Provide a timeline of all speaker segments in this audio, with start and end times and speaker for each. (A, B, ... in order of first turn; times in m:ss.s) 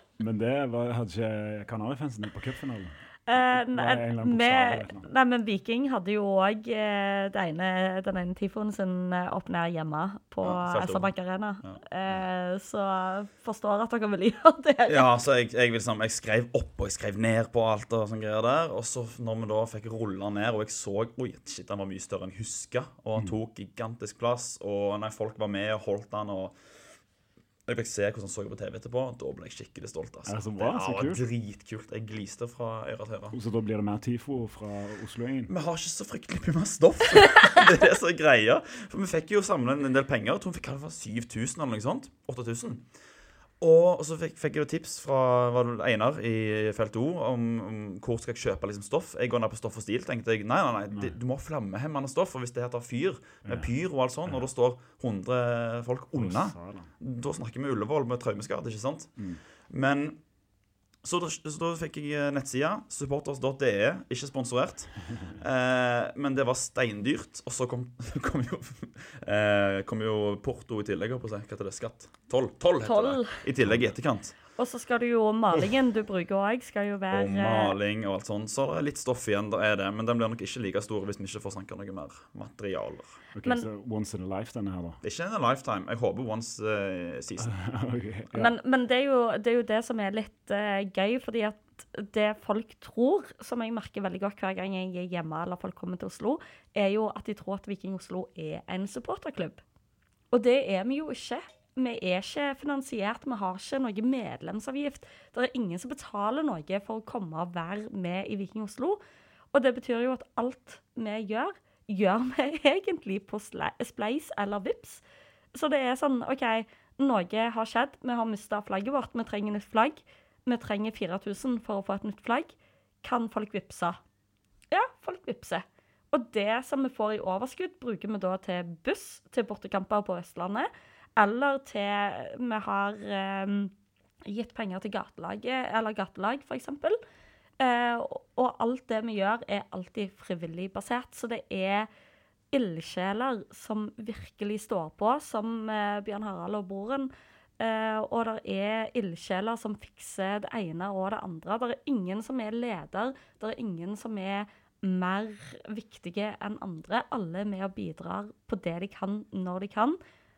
0:00.2-0:03.0 A
0:03.3-0:15.1 B
0:03.5-0:05.1 A
0:10.4-0:11.1 C
0:14.9-0:26.6 C
0:27.7-0:33.4 C
0:30.2-0:31.2 A
0:33.3-0:35.5 A
0:35.5-0:42.9 C
0:43.6-1:00.2 C
0:56.1-0:56.9 A
1:01.0-1:14.4 C
1:12.8-1:13.4 B
1:14.5-1:17.8 B
1:17.1-1:23.2 C
1:23.3-1:25.0 A
1:25.0-1:27.5 C
1:27.4-1:28.5 A
1:28.3-1:39.6 B
1:40.3-1:49.0 B
1:49.5-1:55.0 B
1:55.5-2:04.0 B
2:04.7-2:13.7 B
2:14.2-2:17.0 B
2:17.6-2:21.9 B
2:22.5-2:40.0 B